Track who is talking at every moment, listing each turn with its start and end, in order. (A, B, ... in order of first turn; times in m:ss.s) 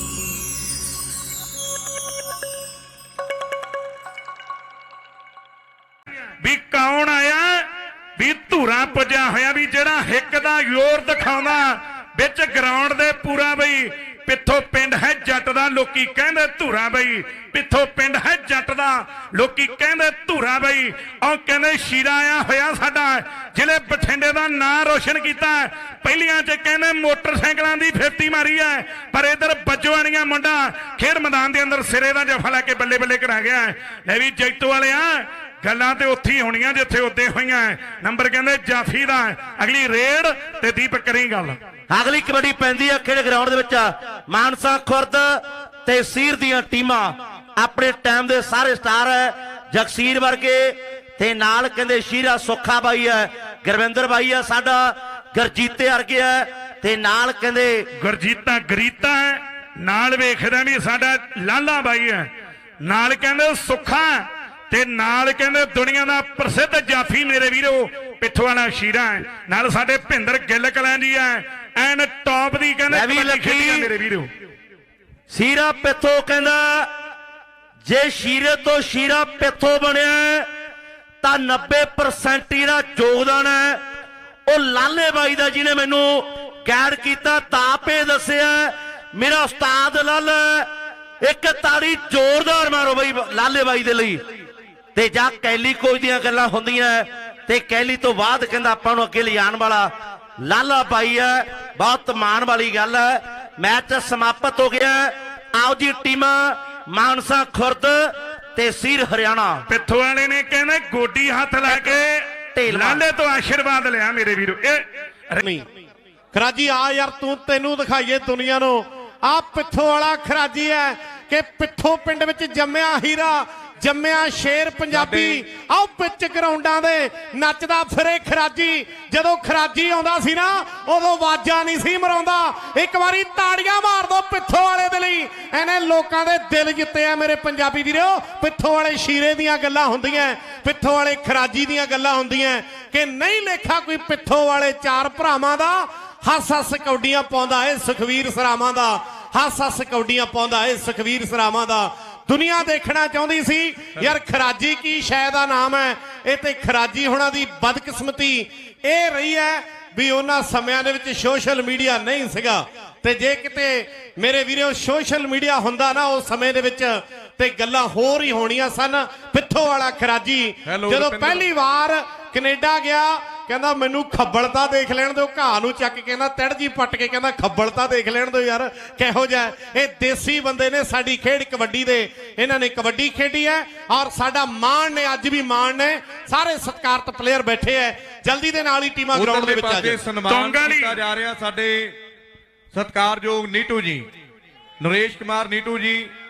0:06.4-0:41.6 A
0:41.9-0:57.9 B
0:58.0-1:02.3 A
1:02.8-1:14.3 A
1:12.9-1:13.9 B
1:15.3-1:16.9 B
1:17.8-1:20.5 B
1:21.2-1:23.8 B
1:24.5-1:30.7 B
1:31.2-1:34.2 B
1:34.9-1:39.9 B
1:40.4-1:49.6 B
1:49.7-1:55.4 A
1:51.7-1:52.0 B
1:52.5-1:53.0 B
1:55.4-1:55.6 C
1:56.3-3:10.0 C
2:04.9-2:05.4 D
2:50.6-2:51.5 D
3:09.1-3:11.9 D
3:10.2-3:11.0 A
3:12.7-3:14.1 D
3:14.8-3:16.1 D